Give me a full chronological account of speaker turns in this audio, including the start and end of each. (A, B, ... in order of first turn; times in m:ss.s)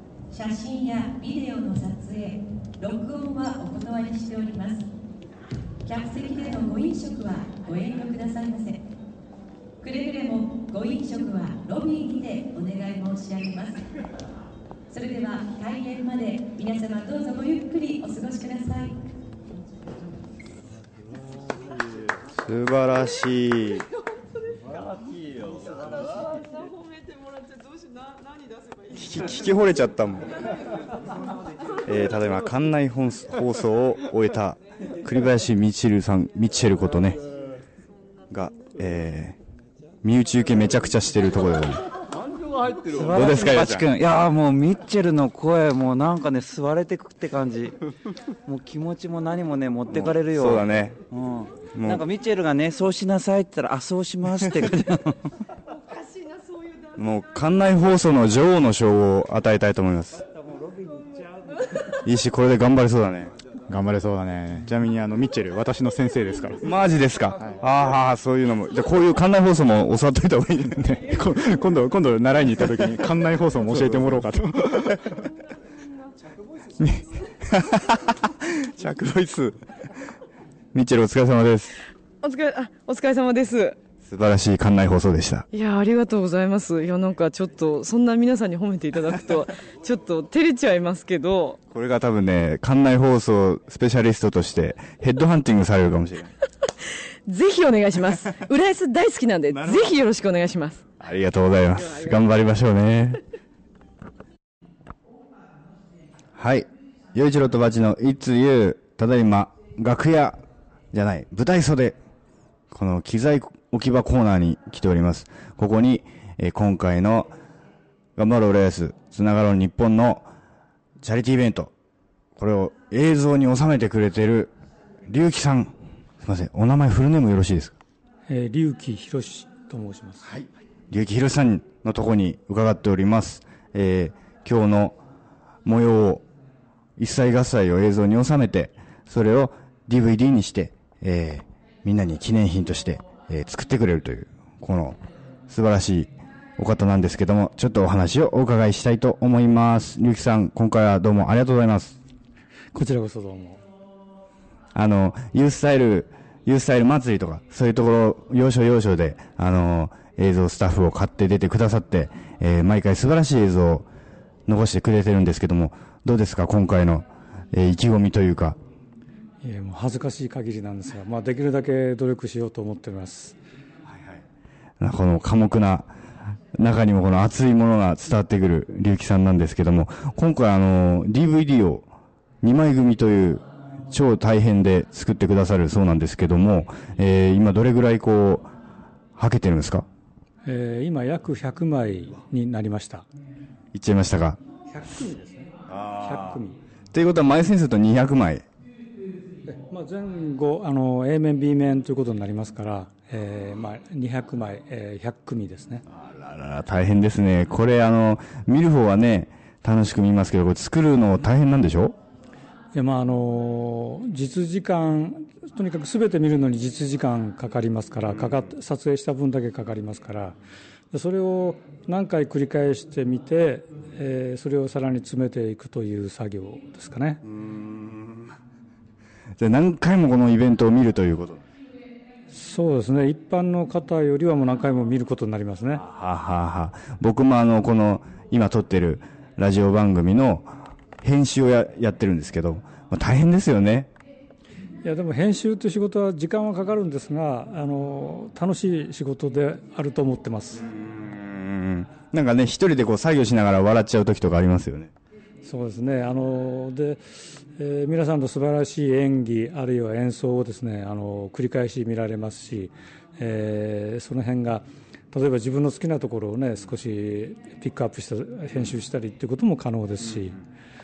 0:00.3-0:04.8 A
0:05.8-0:08.8 A
0:09.8-0:13.8 A
0:14.9-0:18.9 A
0:22.3-0:23.9 B
0:28.9-0:30.4 B
0:31.8-0:37.2 B
0:38.3-0:39.4 B
0:40.0-0:41.8 B
0:42.9-0:47.7 C
0:43.0-0:43.9 B
0:48.5-0:55.1 C
0:50.0-0:51.0 B
0:51.7-0:52.0 B
0:57.0-1:00.2 B
1:02.0-1:04.9 B
1:03.7-1:04.0 D
1:06.0-1:06.4 D
1:06.6-1:15.2 B
1:11.4-1:13.6 D
1:16.8-1:19.9 B
1:20.7-1:21.8 B
1:22.2-1:23.8 E
1:24.0-1:25.4 B
1:25.5-1:31.6 E
1:31.7-1:36.3 B
1:36.8-1:40.8 E
1:39.5-1:39.9 B
1:41.0-1:43.2 B
1:41.8-1:42.2 E
1:46.4-1:52.0 B
1:52.7-1:57.3 B
1:58.2-2:00.3 B
2:01.0-2:01.7 B
2:02.4-2:04.5 B
2:05.1-2:07.8 B
2:08.3-2:10.3 F
2:10.3-2:15.0 B
2:15.6-2:16.2 B
2:17.0-2:32.0 B
2:32.7-2:33.6 F
2:34.7-2:43.9 B
2:44.5-2:48.6 B
2:49.4-2:53.4 F
2:54.8-2:55.9 B
2:56.5-3:01.9 B
3:02.4-3:08.5 B
3:09.2-3:09.8 B
3:10.4-3:13.1 F
3:13.7-3:14.4 B
3:14.7-3:16.6 F
3:15.7-3:16.4 B
3:16.9-3:18.4 B
3:19.5-3:25.8 F
3:25.9-3:32.0 B
3:32.7-3:40.4 F
3:40.9-3:47.2 F
3:47.4-3:48.2 B
3:49.4-3:51.4 B
3:52.3-3:55.8 F
3:55.7-4:03.9 B
4:04.8-4:10.6 F
4:10.6-4:14.9 B
4:15.4-4:17.0 F
4:17.6-4:30.4 F